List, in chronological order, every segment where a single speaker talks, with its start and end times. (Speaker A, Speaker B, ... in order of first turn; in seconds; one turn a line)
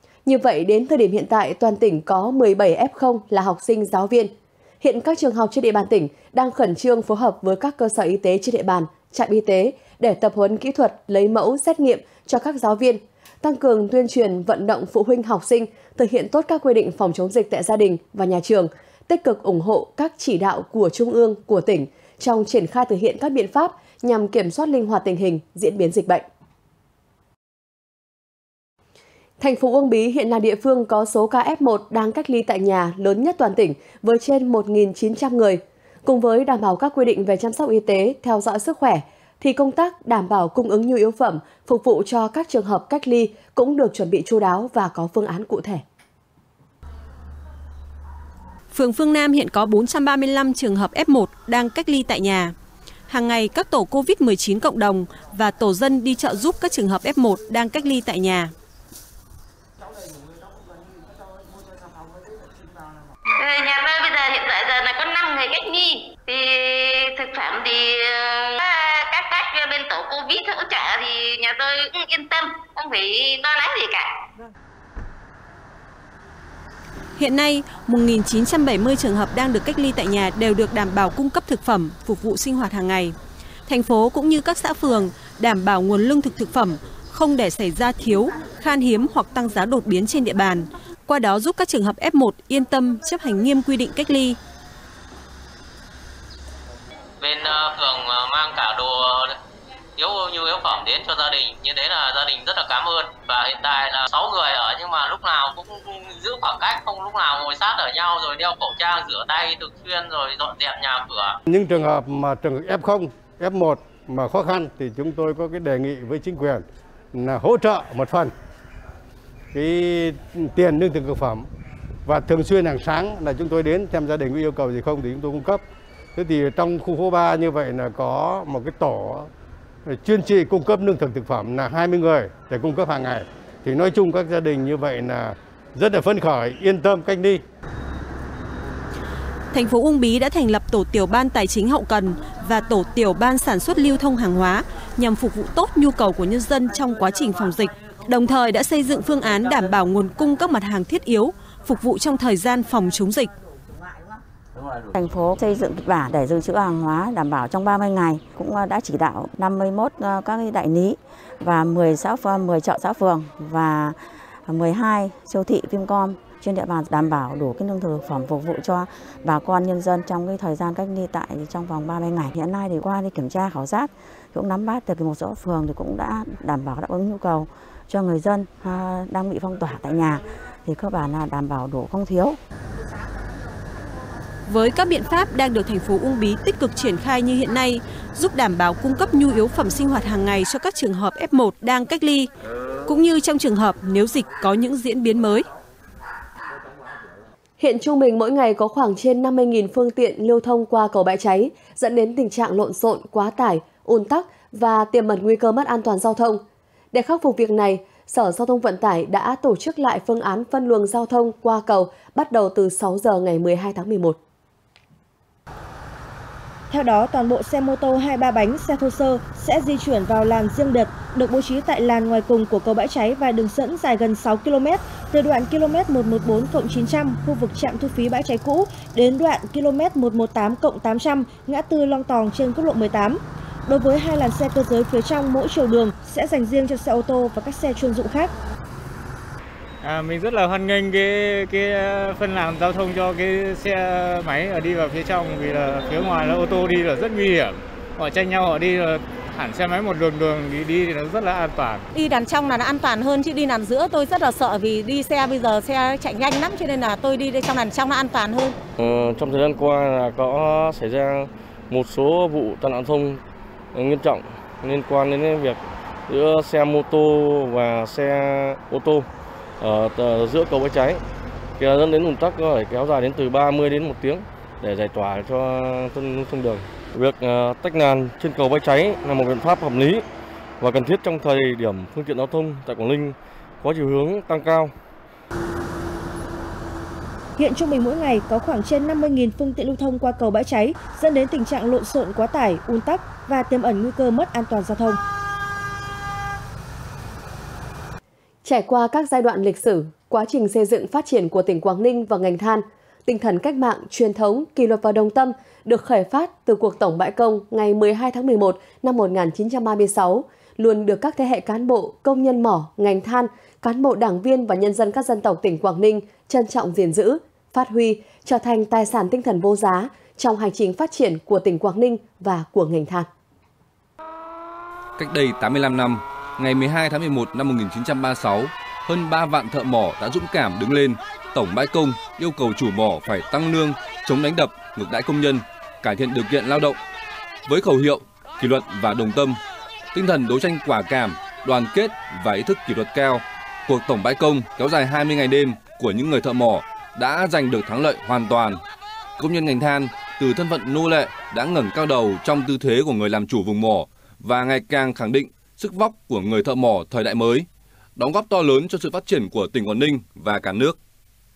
Speaker A: 0.2-26.2
Speaker A: 29.4-45.8
Speaker B: 48.7-52.5
Speaker B: 53.1-58.5
Speaker C: 63.4-74.1
Speaker B: 77.2-83.2
Speaker B: 83.7-94.4
Speaker D: 97.2-99.3
Speaker D: 100.0-111.4
Speaker E: 111.5-118.3
Speaker E: 119.5-121.5
Speaker E: 122.0-125.6
Speaker E: 126.1-129.3
Speaker E: 129.9-137.4
Speaker B: 139.5-153.3
Speaker F: 154.9-182.4
Speaker B: 184.4-192.3
Speaker B: 192.8-195.4
Speaker A: 197.6-206.4
Speaker A: 206.9-214.2
Speaker G: 216.7-238.3
Speaker H: 239.8-251.8
Speaker I: 251.9-258.6
Speaker J: 258.8-263.2
Speaker J: 263.7-269.1
Speaker J: 269.6-271.0
Speaker J: 271.6-280.0
Speaker J: 280.6-284.7
Speaker G: 287.4-295.0
Speaker A: 298.4-323.1
Speaker K: 325.0-336.8
Speaker K: 337.5-339.4
Speaker K: 339.9-348.6
Speaker K: 349.2-360.8